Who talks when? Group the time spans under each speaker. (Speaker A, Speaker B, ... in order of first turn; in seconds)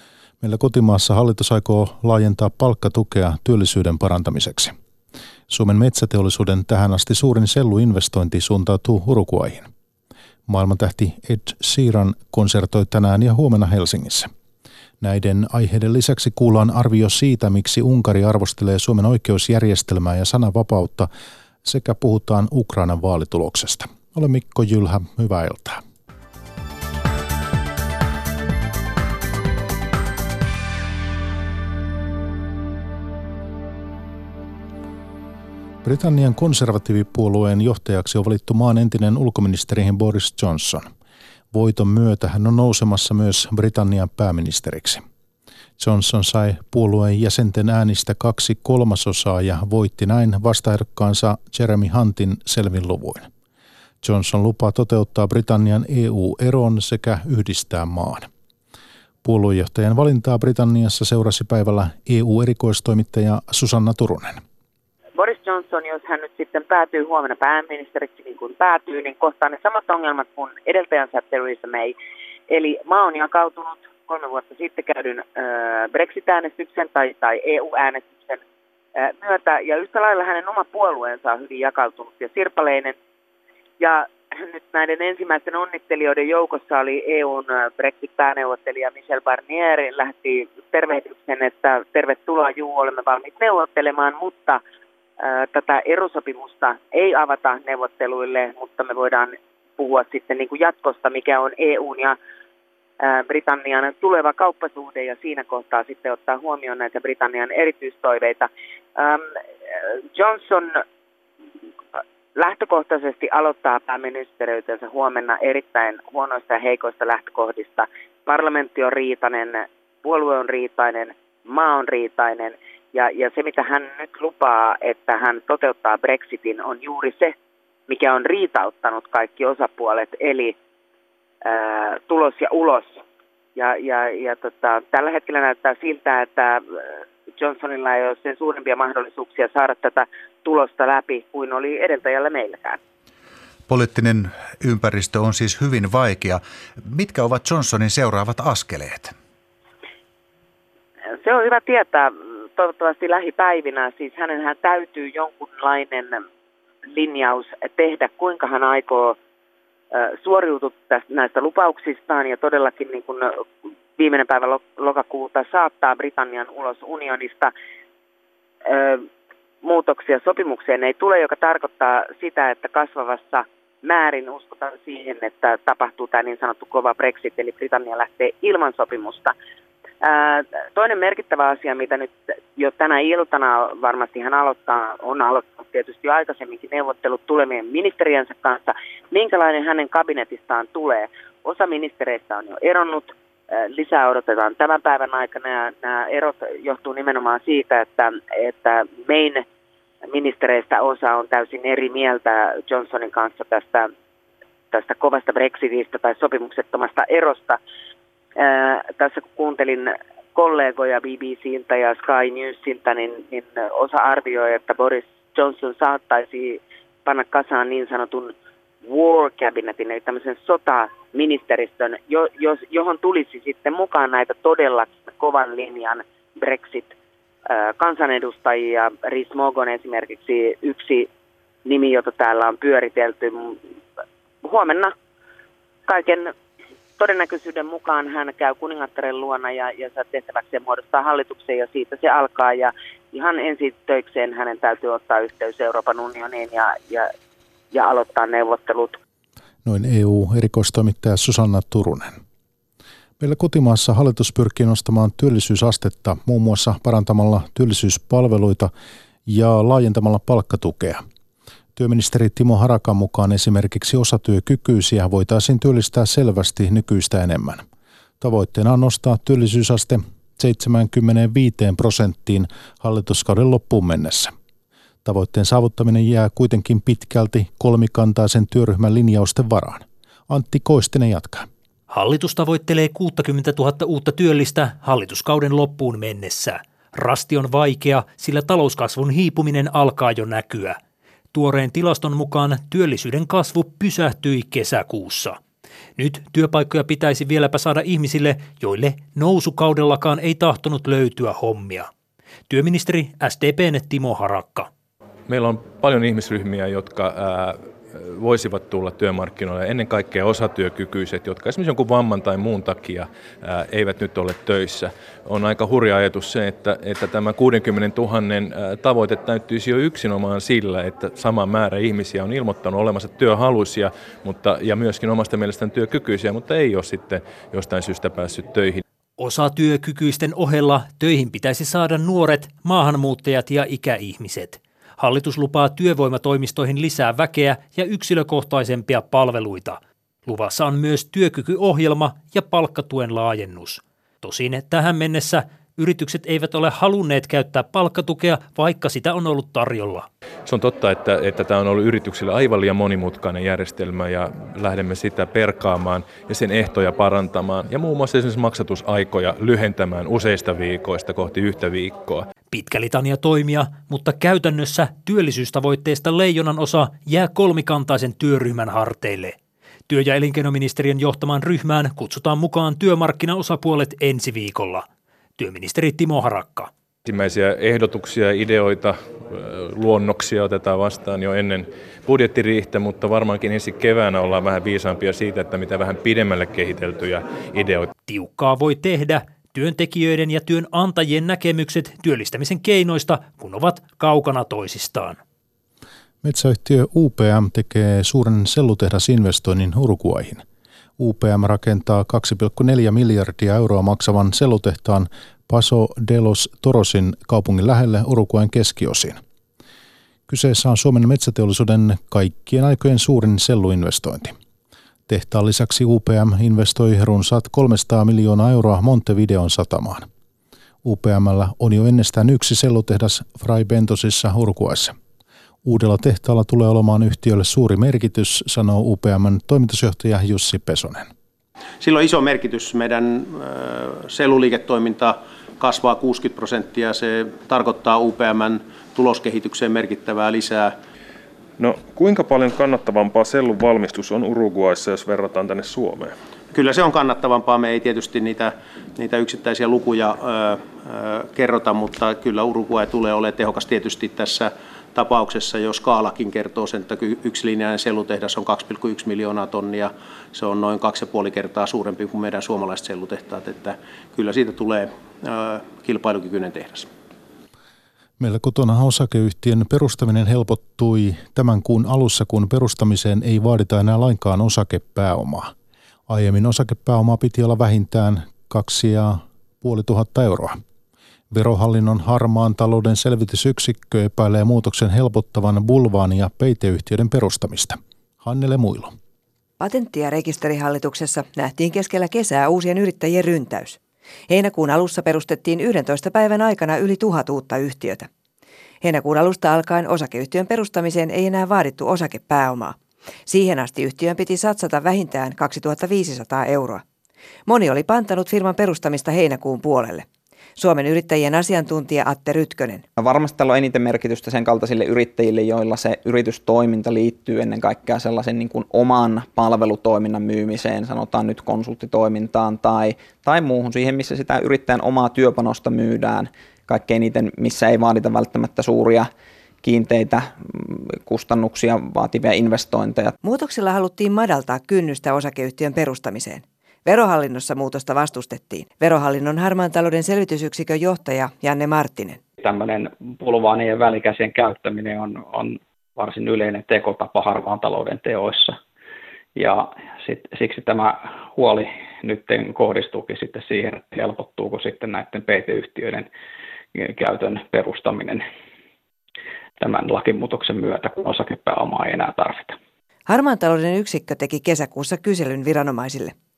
Speaker A: 0.4-4.8, 5.5-9.7, 10.5-14.3, 15.0-21.1, 21.6-25.8, 35.8-40.9, 41.5-45.0, 45.8-53.3, 54.0-58.3, 59.2-64.4, 249.6-252.2, 253.2-258.7, 259.2-261.0, 261.8-267.6, 268.2-274.3, 275.1-281.5, 396.2-400.4, 401.0-409.2, 410.3-414.3, 415.1-420.1, 420.8-424.9, 425.6-431.1, 468.2-475.5, 476.1-480.6, 481.3-488.9
Speaker B: 65.2-71.9, 72.5-78.4, 78.9-83.0, 83.8-94.6, 95.2-102.2, 103.0-109.3, 110.1-110.8, 112.3-127.3, 127.9-130.6, 131.4-133.0, 133.6-136.8, 137.4-142.8, 151.2-156.2, 156.9-159.2, 159.9-163.4, 164.0-167.5, 168.7-169.1, 169.6-179.3, 180.0-199.4, 200.1-203.9, 204.7-207.6, 208.4-218.3, 218.8-226.9, 227.5-231.1, 231.6-233.6, 234.4-234.9, 235.9-236.3, 237.0-247.1, 247.7-249.0
Speaker C: 143.7-149.1
Speaker D: 281.9-290.8, 291.3-295.4, 295.9-301.9, 302.5-304.7, 329.2-350.1, 362.5-369.4, 369.9-374.9, 375.4-376.7, 388.0-395.2
Speaker E: 305.3-328.8, 350.4-362.3, 377.1-387.9
Speaker F: 431.8-440.8, 446.5-466.9
Speaker G: 441.6-446.2
Speaker H: 489.6-498.1, 498.8-506.8, 507.5-512.9, 533.2-542.2, 563.1-566.1
Speaker I: 513.0-529.1, 529.6-533.2
Speaker J: 542.4-548.6, 549.4-556.1, 556.8-558.2, 559.6-562.6